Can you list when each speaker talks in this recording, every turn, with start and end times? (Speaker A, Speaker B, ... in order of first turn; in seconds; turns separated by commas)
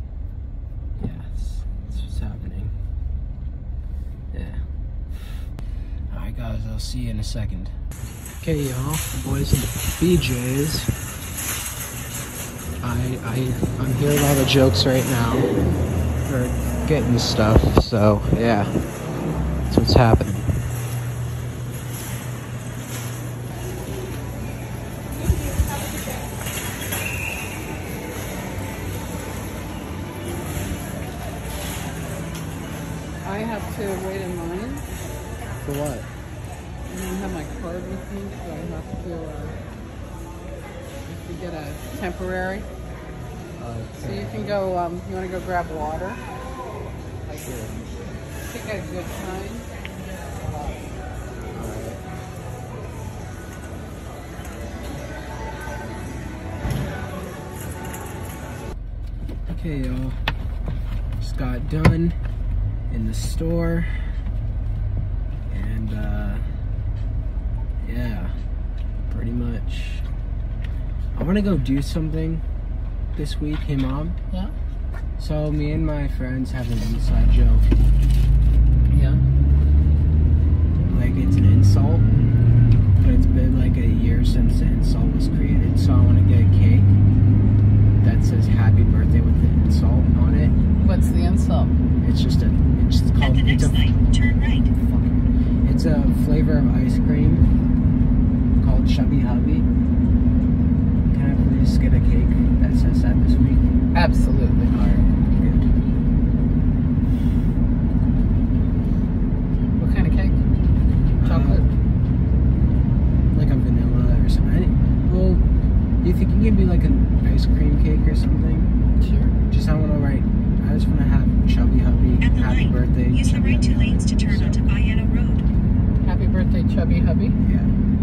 Speaker A: 1.0-2.7, Speaker A: 4.3-4.6, Speaker A: 6.1-7.8, Speaker A: 8.4-10.9, Speaker A: 12.8-15.6, Speaker A: 16.2-18.8, Speaker A: 19.7-20.5, Speaker B: 33.2-34.8, Speaker A: 35.6-36.1, Speaker B: 36.9-39.6, Speaker B: 41.0-42.7, Speaker A: 43.6-44.6, Speaker B: 44.0-46.2, Speaker A: 47.3-47.9, Speaker B: 48.4-49.7, Speaker B: 50.5-50.8, Speaker A: 51.5-52.0, Speaker A: 59.5-60.2, Speaker A: 61.2-62.2, Speaker A: 62.9-63.9, Speaker A: 65.5-66.5, Speaker A: 67.8-68.4, Speaker A: 69.1-70.1, Speaker A: 71.1-72.4, Speaker A: 73.1-74.2, Speaker A: 75.2-77.7, Speaker B: 78.9-79.2, Speaker A: 80.9-82.1, Speaker A: 83.0-87.0, Speaker A: 88.0-90.5, Speaker B: 90.8-91.8, Speaker A: 92.0-94.0, Speaker C: 93.2-94.7, Speaker A: 94.7-97.5, Speaker A: 98.6-99.7, Speaker A: 101.1-103.7, Speaker B: 103.9-104.7, Speaker A: 104.7-105.7, Speaker B: 109.8-110.4, Speaker A: 111.2-111.6, Speaker B: 111.2-111.7, Speaker A: 113.3-115.4, Speaker A: 116.0-118.7, Speaker B: 119.0-119.4, Speaker A: 119.5-124.6, Speaker C: 122.2-125.4, Speaker B: 126.0-127.4, Speaker A: 127.4-127.7